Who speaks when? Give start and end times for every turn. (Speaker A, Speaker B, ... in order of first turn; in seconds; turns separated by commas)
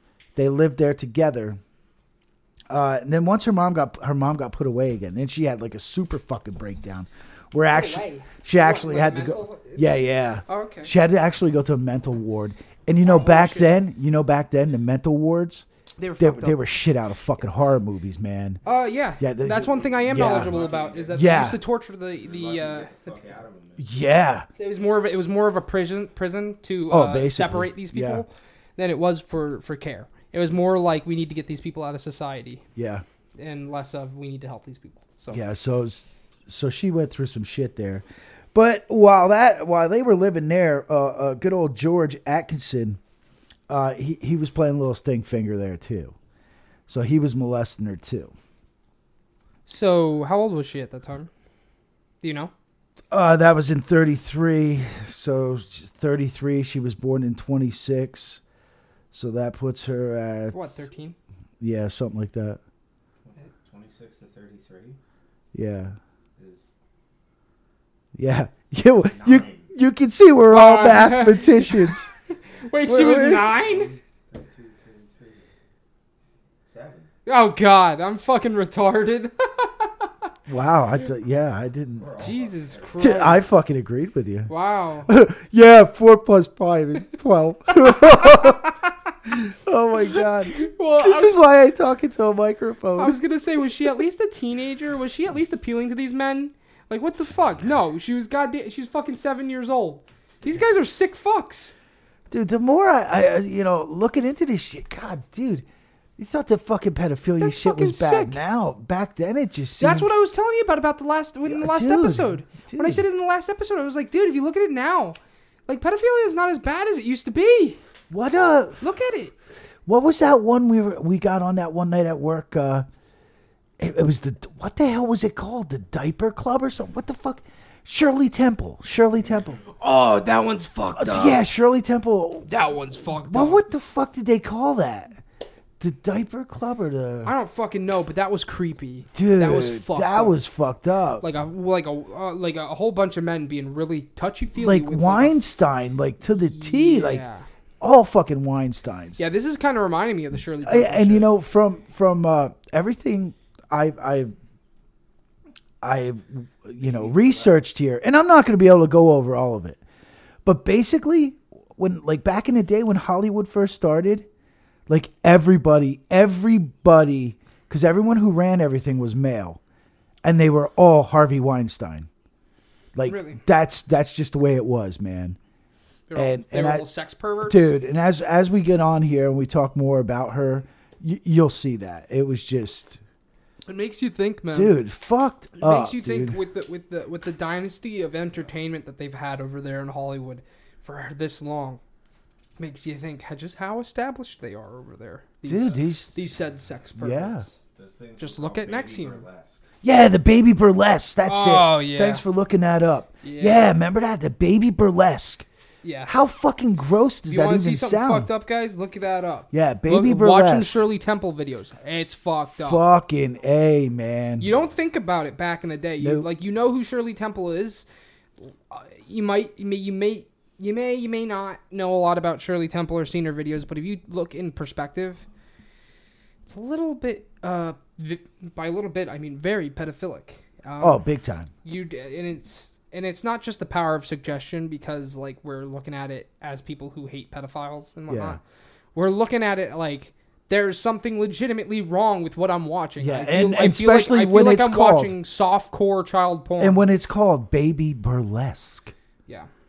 Speaker A: 0.3-1.6, Speaker A: 2.7-15.7, Speaker B: 7.7-10.9, Speaker B: 13.0-13.7, Speaker B: 16.0-16.6, Speaker A: 16.2-18.6, Speaker B: 18.6-23.1, Speaker A: 19.2-21.6, Speaker C: 20.0-21.6, Speaker C: 22.1-23.9, Speaker A: 23.8-24.5, Speaker B: 24.6-32.6, Speaker A: 26.9-28.2, Speaker A: 32.8-33.0, Speaker B: 33.4-35.4, Speaker A: 35.3-43.0, Speaker A: 43.7-46.1, Speaker A: 46.9-48.3, Speaker B: 49.7-51.3, Speaker B: 52.2-52.5, Speaker A: 53.1-58.4, Speaker A: 59.1-60.9, Speaker B: 60.5-61.1, Speaker A: 61.6-62.6, Speaker C: 63.2-65.0, Speaker A: 65.5-66.0, Speaker C: 66.4-66.7, Speaker A: 68.1-72.1, Speaker C: 69.0-69.7, Speaker B: 70.5-73.9, Speaker A: 72.8-73.5, Speaker C: 73.3-75.5, Speaker C: 76.6-77.1, Speaker B: 77.2-80.1, Speaker A: 80.5-82.1, Speaker C: 82.0-83.4, Speaker B: 82.2-83.5, Speaker A: 83.0-84.5, Speaker B: 84.5-85.1, Speaker A: 85.1-88.7, Speaker B: 88.2-88.7, Speaker A: 89.2-93.2, Speaker B: 90.1-91.4, Speaker B: 93.0-101.7, Speaker A: 102.3-105.7, Speaker A: 106.2-110.1, Speaker B: 107.4-108.4, Speaker B: 109.8-117.8, Speaker A: 111.4-113.0, Speaker A: 118.1-118.8, Speaker B: 118.8-119.3, Speaker A: 119.8-122.9, Speaker A: 123.8-129.6, Speaker B: 129.7-131.4, Speaker A: 130.9-132.5, Speaker B: 132.5-133.6, Speaker A: 133.3-135.2, Speaker A: 135.8-137.3, Speaker B: 137.2-140.4, Speaker A: 139.1-141.2, Speaker B: 141.2-145.4, Speaker A: 144.6-147.2, Speaker B: 146.5-147.4, Speaker A: 147.8-149.2, Speaker B: 149.2-151.3, Speaker A: 150.6-154.3, Speaker A: 155.8-159.8, Speaker C: 156.9-157.5, Speaker A: 160.4-164.3, Speaker A: 164.9-169.6, Speaker A: 170.2-172.1, Speaker A: 172.9-175.4, Speaker B: 173.1-173.4, Speaker B: 176.1-177.7, Speaker A: 176.1-176.8, Speaker A: 177.4-183.0, Speaker B: 183.7-184.8, Speaker A: 184.5-186.4, Speaker B: 185.6-191.8, Speaker B: 192.6-197.4, Speaker A: 195.5-196.2, Speaker A: 197.0-197.4, Speaker C: 197.6-199.6, Speaker B: 198.2-199.2, Speaker A: 199.8-205.4, Speaker B: 201.2-202.2, Speaker B: 203.2-203.7, Speaker B: 205.8-206.1, Speaker A: 206.1-208.3, Speaker B: 207.3-212.8, Speaker A: 209.5-210.8, Speaker A: 212.6-214.5, Speaker B: 214.4-217.8, Speaker A: 216.0-216.3, Speaker B: 218.4-225.2, Speaker B: 226.4-231.0, Speaker A: 230.8-231.5, Speaker B: 231.6-238.4, Speaker A: 238.1-238.4, Speaker B: 238.9-246.8, Speaker A: 243.0-245.1, Speaker A: 246.6-248.9